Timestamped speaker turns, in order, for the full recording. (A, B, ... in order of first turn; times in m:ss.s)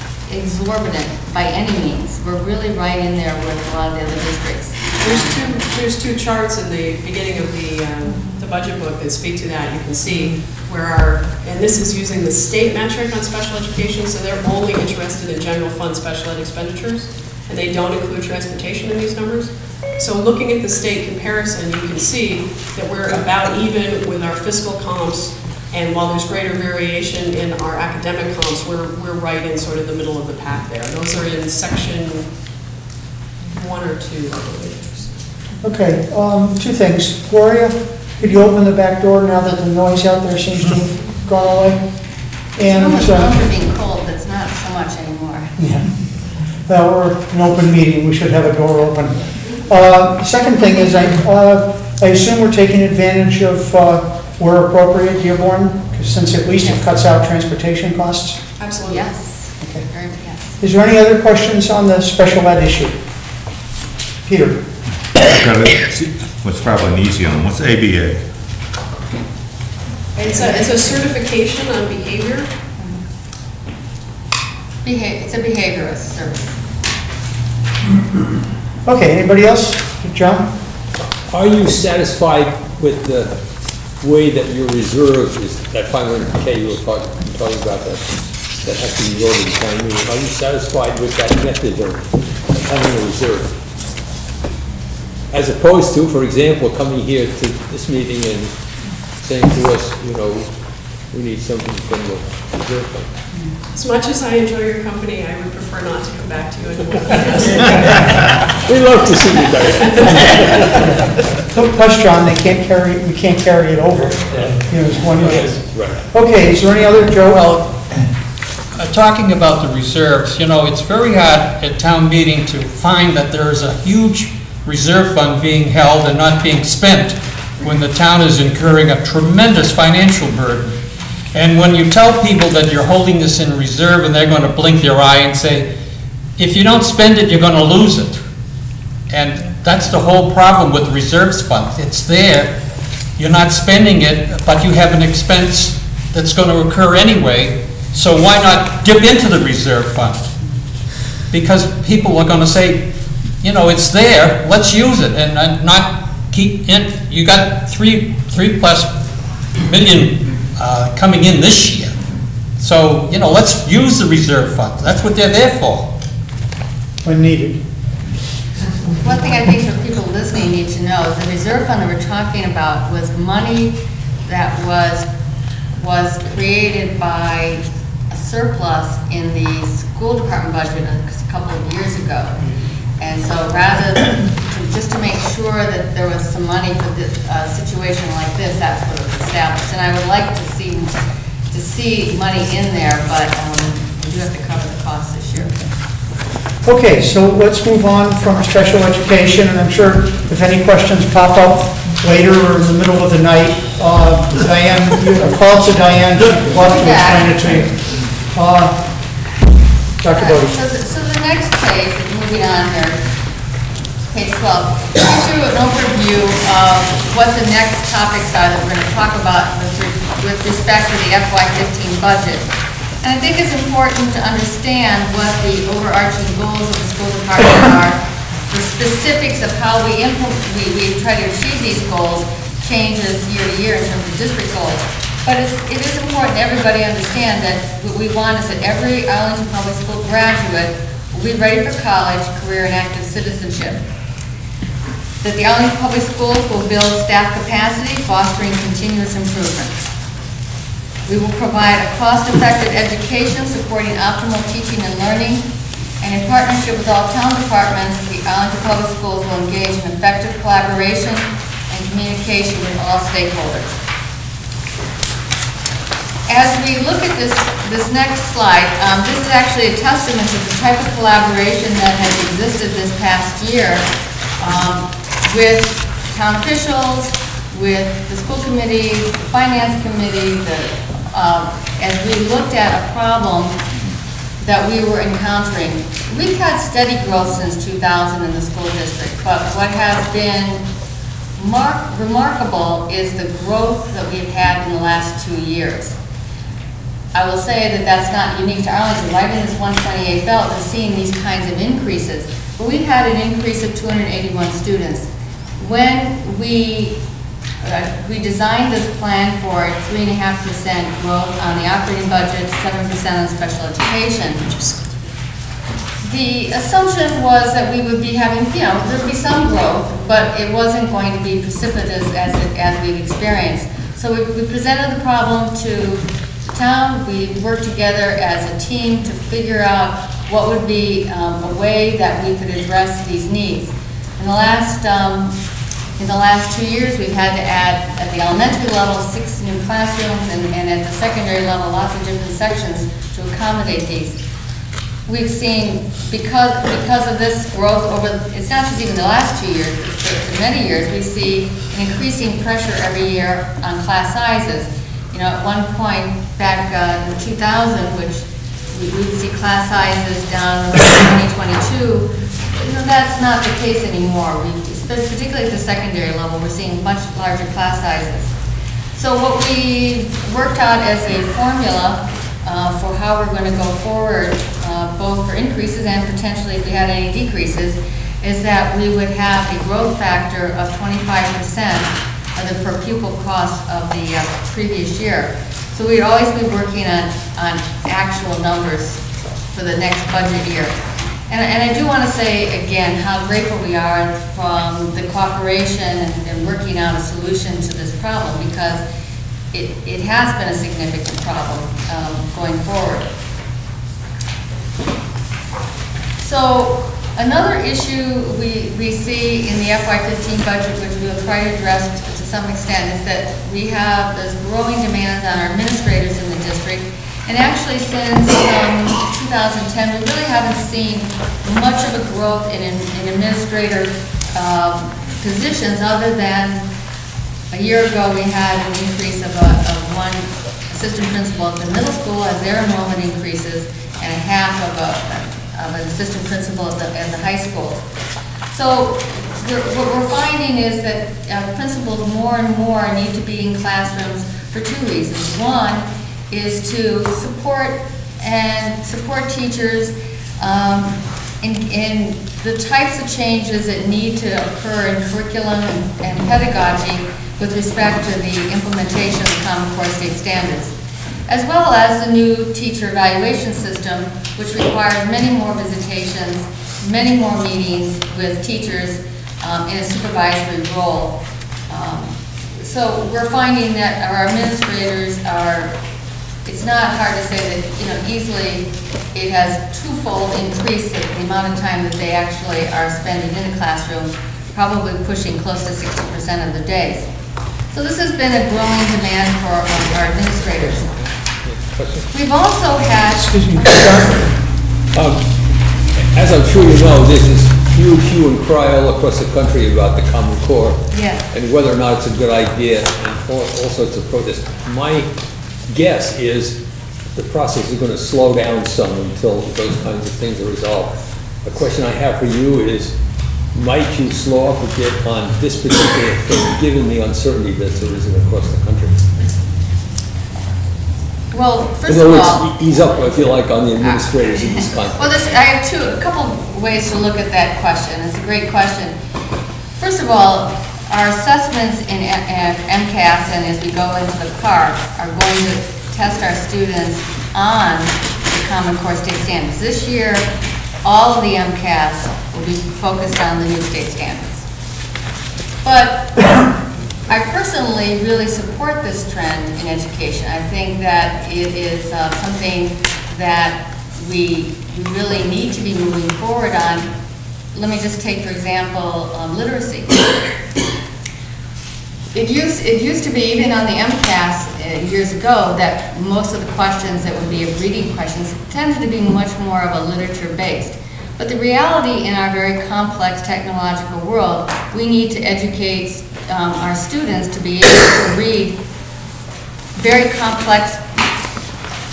0:00.3-0:04.9 A
0:05.0-0:32.2 B
0:33.5-0:35.1 B
0:35.6-0:41.8 C
0:42.6-0:43.3 C
0:42.7-0:45.5 A
0:45.6-0:45.9 C
0:46.6-0:58.4 C
0:58.6-0:59.0 B
0:58.8-1:00.5 A
1:00.6-1:03.0 C
1:04.2-1:04.6 C
1:05.2-1:08.2 D
1:10.2-1:12.5 B
1:14.8-1:16.6 A
1:18.8-1:20.5 C
1:21.2-1:23.4 E
1:24.0-1:33.5 E
1:35.3-1:38.5 E
1:39.2-1:40.5 E
1:41.1-1:43.1 E
1:43.7-1:48.2 B
1:48.6-1:50.7 E
1:50.1-1:57.5 C
1:54.3-1:56.0 E
1:57.3-1:57.7 F
1:58.7-2:10.8 F
2:11.3-2:15.7 F
2:16.4-2:18.2 F
2:19.1-2:22.5 F
2:23.2-2:30.3 F
2:31.3-2:32.8 F
2:33.4-2:38.9 F
2:39.6-2:42.0 F
2:42.6-2:45.9 F
2:47.0-2:47.6 C
2:49.0-2:55.1 A
2:55.7-3:02.4 A
3:03.0-3:11.0 A
3:11.5-3:15.6 A
3:16.6-3:28.8 C
3:26.5-3:27.4 A
3:30.0-3:30.6 C
3:30.1-3:33.0 A
3:34.1-3:42.5 A
3:43.0-4:03.8 A
4:05.2-4:09.9 A
4:11.1-4:15.4 A
4:16.0-4:23.8 A
4:26.3-4:33.8 A
4:34.4-4:43.6 A
4:44.4-4:50.6 A
4:51.4-4:56.0 A
4:57.1-5:05.1 A
5:05.6-5:07.0 A
5:07.6-5:14.5 A
5:16.0-5:35.3 A
5:36.0-5:44.2 A
5:45.1-6:08.3 A
6:08.9-6:29.0 A
6:29.5-6:30.7 A
6:31.3-6:38.8 A
6:39.5-6:43.0 A
6:46.2-7:06.6 A
7:07.5-7:17.8 A
7:18.5-7:40.7 A
7:41.3-7:51.2 A
7:51.7-7:55.7 A
7:56.4-8:07.1 A
8:07.7-8:10.9 A
8:10.6-8:12.1 E
8:12.1-8:13.7 A
8:13.1-8:14.1 C
8:14.9-8:15.3 E
8:16.0-8:25.1 E
8:20.9-8:21.2 A
8:25.7-8:26.6 E
8:27.1-8:30.9 E
8:31.4-8:32.9 E
8:33.5-8:39.1 E
8:41.3-8:42.5 A
8:41.8-8:45.2 E
8:43.8-8:49.0 A
8:49.8-9:00.2 A
9:00.8-9:04.5 A
9:05.6-9:06.3 A
9:07.1-9:16.9 A
9:17.5-9:20.1 A
9:22.1-9:38.6 A
9:39.8-9:40.8 A